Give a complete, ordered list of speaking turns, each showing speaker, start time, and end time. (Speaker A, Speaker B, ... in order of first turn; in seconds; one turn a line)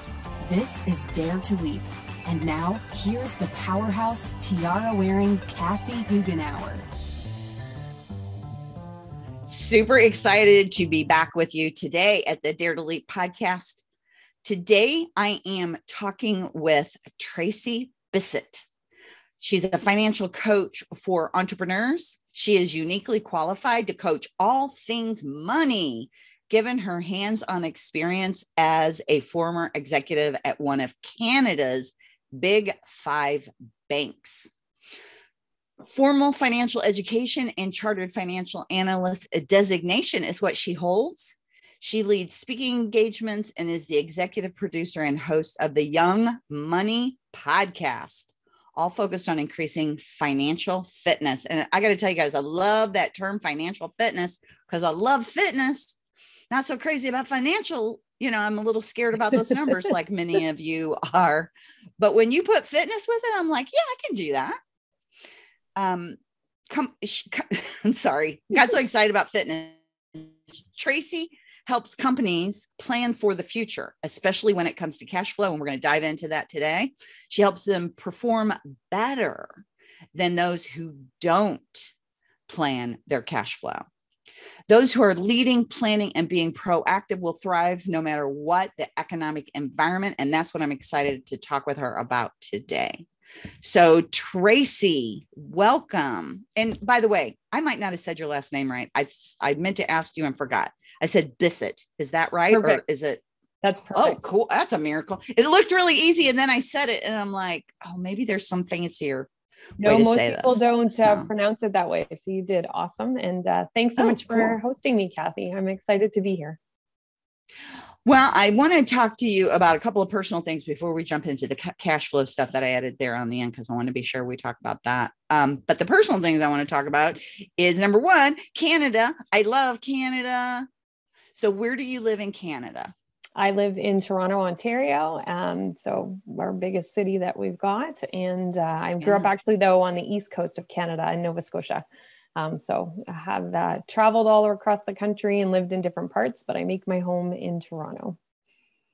Speaker A: 0.4-6.9
Speaker B: 9.4-13.8
Speaker B: 14.4-18.6
Speaker B: 19.4-34.5
Speaker B: 35.8-56.0
Speaker B: 56.5-64.6
Speaker B: 65.8-66.2
Speaker B: 66.7-81.9
Speaker B: 82.5-83.9
Speaker B: 84.7-93.1
Speaker B: 93.6-103.2
Speaker C: 102.5-102.8
Speaker C: 103.6-104.2
Speaker B: 103.9-109.3
Speaker C: 109.8-116.6
Speaker B: 109.8-111.3
Speaker B: 114.0-114.5
Speaker B: 118.0-130.7
Speaker B: 131.3-132.9
Speaker C: 133.4-141.8
Speaker B: 139.0-139.3
Speaker C: 142.3-148.2